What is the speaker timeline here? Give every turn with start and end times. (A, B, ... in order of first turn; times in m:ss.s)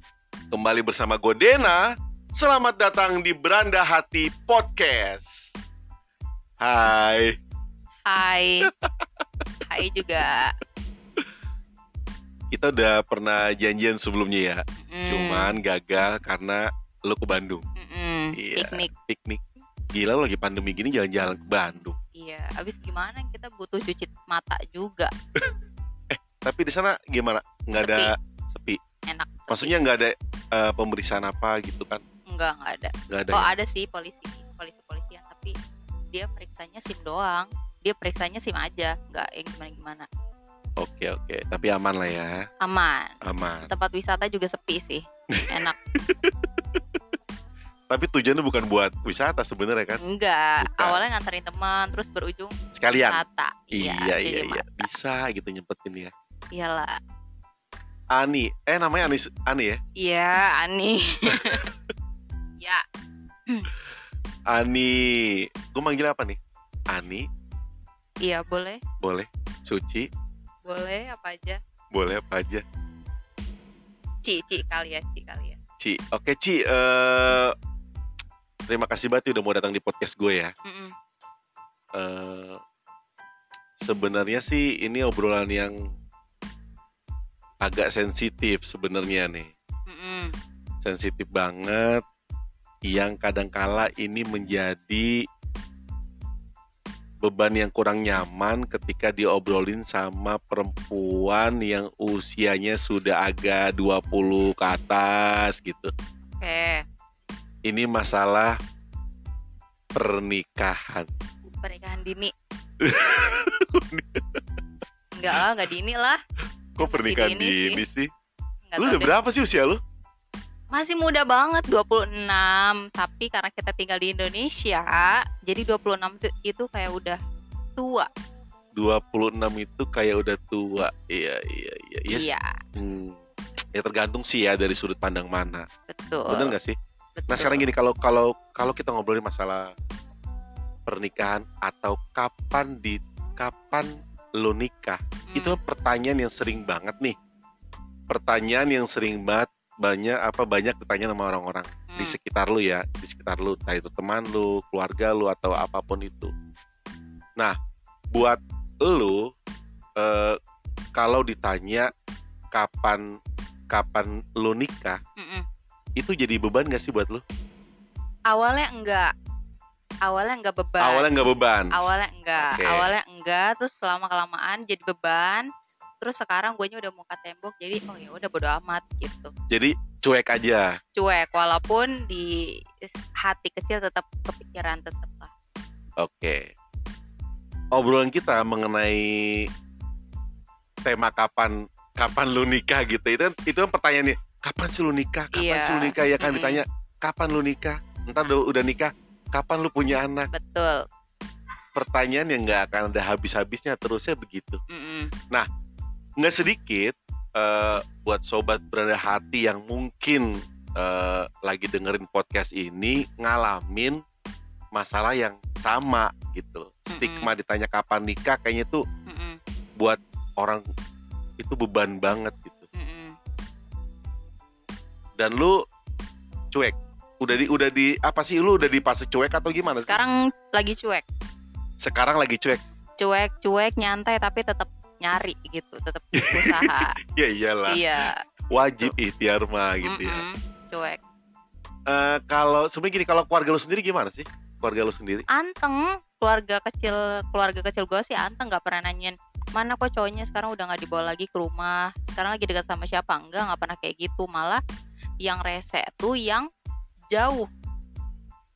0:00.5-0:05.5 A
0:06.6-0:07.4 A
0:08.1-0:08.7 B
0:08.6-0:08.9 A
0:09.6-0:10.5 B
0:12.5-0:17.6 A
0:14.8-0:15.6 B
0:17.8-0:18.9 B
0:18.4-0:19.4 A
0:19.9-0:22.0 A
0:22.2-0:25.1 B
0:26.1-0:28.8 A
0:27.8-0:28.1 B
0:29.1-0:29.8 B
0:29.5-0:32.0 A
0:32.3-0:35.6 B
0:33.1-0:33.6 A
0:36.1-0:40.1 B
0:40.8-0:42.4 A
0:42.6-0:45.8 B
0:43.2-0:43.7 A
0:45.3-0:46.3 A
0:47.9-0:50.0 A
0:50.0-0:54.8 B
0:50.6-0:51.0 A
0:52.8-0:53.2 A
0:53.7-0:56.1 A
0:56.5-0:57.0 B
0:58.1-0:59.8 A
1:00.0-1:01.6 B
1:01.3-1:01.6 A
1:04.5-1:06.4 A
1:06.9-1:07.3 A
1:08.2-1:08.8 B
1:09.0-1:10.1 A
1:10.6-1:11.6 B
1:11.9-1:12.6 A
1:14.2-1:15.6 B
1:15.8-1:17.6 A
1:18.7-1:20.5 A
1:20.6-1:20.9 B
1:21.9-1:22.6 A
1:23.8-1:25.8 A
1:27.6-1:29.5 A
1:29.9-1:30.3 B
1:30.8-1:32.0 A
1:32.9-1:35.3 A
1:37.2-1:45.9 A
1:46.4-1:46.8 B
1:47.7-1:48.6 A
1:50.0-1:51.1 A
1:51.5-1:52.3 B
1:52.8-1:54.4 A
1:55.2-1:56.2 B
1:56.8-1:58.1 A
1:56.8-1:57.8 B
1:58.7-1:59.1 B
1:58.8-1:59.8 A
2:00.7-2:07.2 B
2:07.8-2:08.1 B
2:08.8-2:13.2 A
2:12.1-2:12.5 B
2:13.8-2:15.7 A
2:15.9-2:16.6 B
2:16.3-2:16.8 A
2:17.2-2:17.7 B
2:17.3-2:19.7 A
2:20.9-2:27.2 A
2:25.3-2:25.6 B
2:28.1-2:36.3 A
2:31.9-2:32.2 B
2:38.1-2:39.3 A
2:40.0-2:40.4 A
2:41.0-2:41.9 A
2:42.5-2:43.1 A
2:43.7-2:45.0 A
2:45.2-2:45.4 B
2:46.0-2:47.2 A
2:48.3-2:49.1 B
2:50.0-2:51.1 B
2:50.8-2:51.7 A
2:51.7-2:55.5 B
2:52.4-2:52.9 A
2:56.0-2:59.3 B
2:59.5-3:00.7 A
3:01.0-3:05.3 B
3:06.0-3:06.5 A
3:07.7-3:09.5 A
3:10.8-3:20.3 A
3:15.3-3:16.6 B
3:20.3-3:20.9 B
3:21.8-3:24.6 A
3:24.7-3:25.1 B
3:26.2-3:34.0 A
3:34.7-3:38.8 A
3:36.9-3:37.3 B
3:39.1-3:39.4 B
3:39.8-3:40.6 A
3:41.4-3:42.7 A
3:42.7-3:43.2 B
3:45.2-3:45.6 A
3:46.5-3:50.0 A
3:49.8-3:51.0 B
3:51.8-3:52.6 A
3:53.0-3:57.0 B
3:56.2-4:00.2 A
3:57.7-3:58.2 B
3:59.8-4:01.0 B
4:01.9-4:05.2 A
4:05.3-4:14.6 B
4:15.2-4:16.5 B
4:17.1-4:17.5 B